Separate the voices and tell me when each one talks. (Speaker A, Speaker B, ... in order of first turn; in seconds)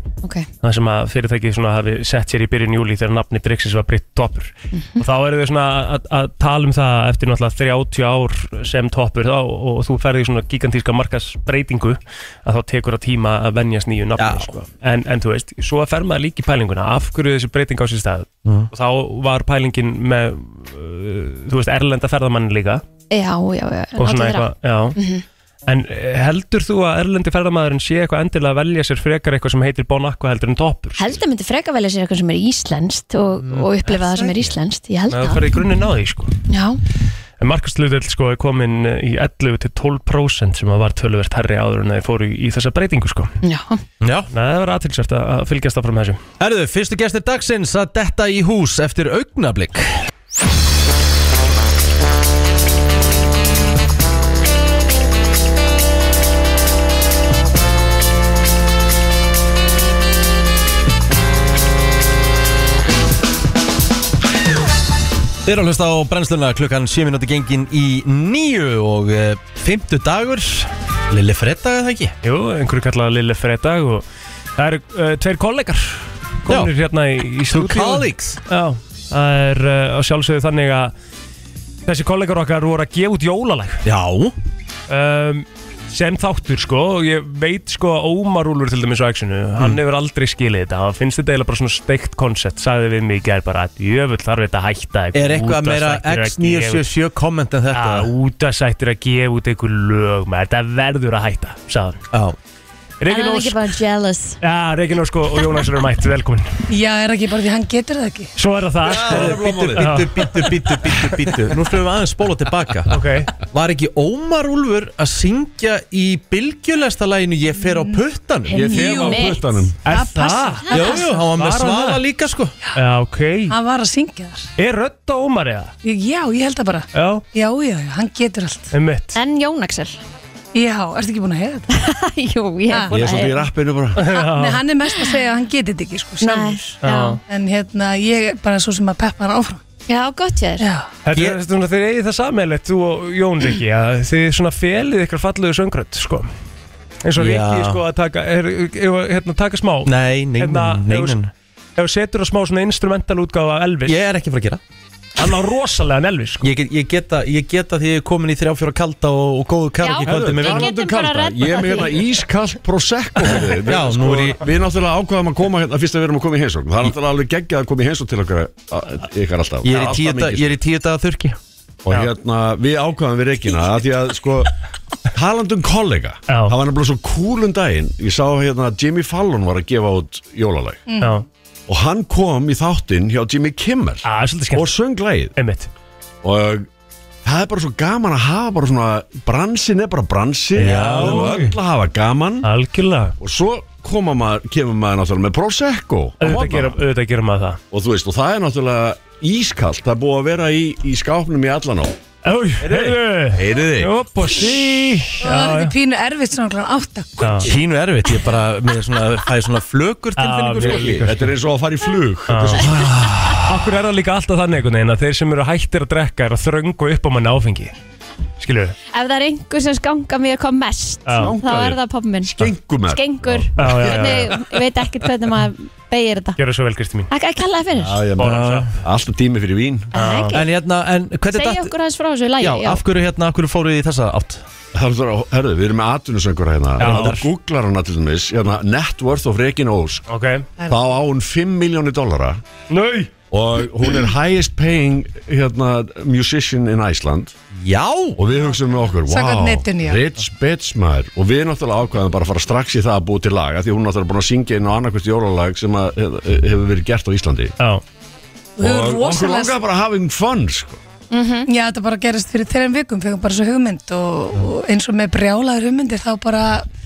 Speaker A: 0.2-0.5, 4.7-5.0, 23.1-25.2, 31.0-35.4, 36.5-36.8, 43.4-43.8, 103.1-104.4, 118.7-119.5, 120.7-121.0, 129.1-130.0, 131.7-133.4, 136.2-137.2, 139.9-140.7, 159.8-162.0, 218.9-226.4, 227.1-228.0, 229.9-230.4, 231.3-232.8, 261.1-261.5
Speaker B: 0.6-22.8, 24.0-25.0, 25.7-31.2, 33.8-34.5, 35.1-36.3, 37.4-43.3, 44.3-46.2, 72.2-74.0, 74.6-80.9, 81.9-83.8, 84.9-96.8, 97.7-102.0, 103.0-103.6, 104.4-106.5, 108.4-110.3, 112.9-113.3, 119.8-122.0, 122.7-123.5, 124.6-125.7, 126.9-127.2, 128.7-129.2, 134.0-134.6, 136.8-137.2, 141.0-146.3, 147.0-151.2, 151.8-153.9, 155.2-156.5, 176.3-176.6, 181.0-181.2, 184.0-184.7, 185.3-185.7, 190.6-191.5, 192.4-193.1, 196.2-197.6, 202.2-205.7, 207.2-207.5, 210.2-211.3, 212.3-212.8, 213.3-217.7, 218.4-218.8, 221.1-221.3, 223.6-224.3, 226.4-227.1, 228.2-228.7, 229.9-230.4, 236.8-237.2, 240.1-240.5, 242.7-243.1
Speaker C: 14.2-14.5, 44.0-44.3, 46.4-50.0, 65.4-72.2, 76.5-76.7, 77.5-78.4, 83.8-84.3, 95.1-98.1, 102.1-102.4, 108.9-118.8, 120.7-122.5, 141.1-141.4, 147.2-147.8, 149.8-151.3, 153.8-154.6, 156.4-160.7, 163.6-164.4, 169.6-171.4, 190.6-191.4, 207.4-211.2, 212.7-213.6, 228.2-228.7, 230.3-231.7, 232.4-234.4, 236.8-237.3, 247.6-248.2
Speaker D: 106.7-108.3, 117.7-118.0, 118.5-121.0, 123.5-124.5, 125.8-128.7, 130.5-131.7, 132.7-133.0, 134.1-136.7, 137.3-139.6, 140.6-140.9, 180.8-181.2, 205.2-207.4, 248.5-250.0, 258.6-259.6, 261.4-266.7
Speaker E: 108.8-110.0, 118.5-119.8, 132.9-134.0, 160.1-170.6, 171.8-174.5, 175.1-180.8, 181.7-185.3, 186.2-186.7, 187.2-192.5, 193.2-196.8, 197.7-201.9, 202.6-203.9, 210.6-212.8, 221.2-224.3, 227.8-229.9, 234.7-240.1, 240.7-242.4, 243.3-247.3, 248.2-257.5, 258.6-260.8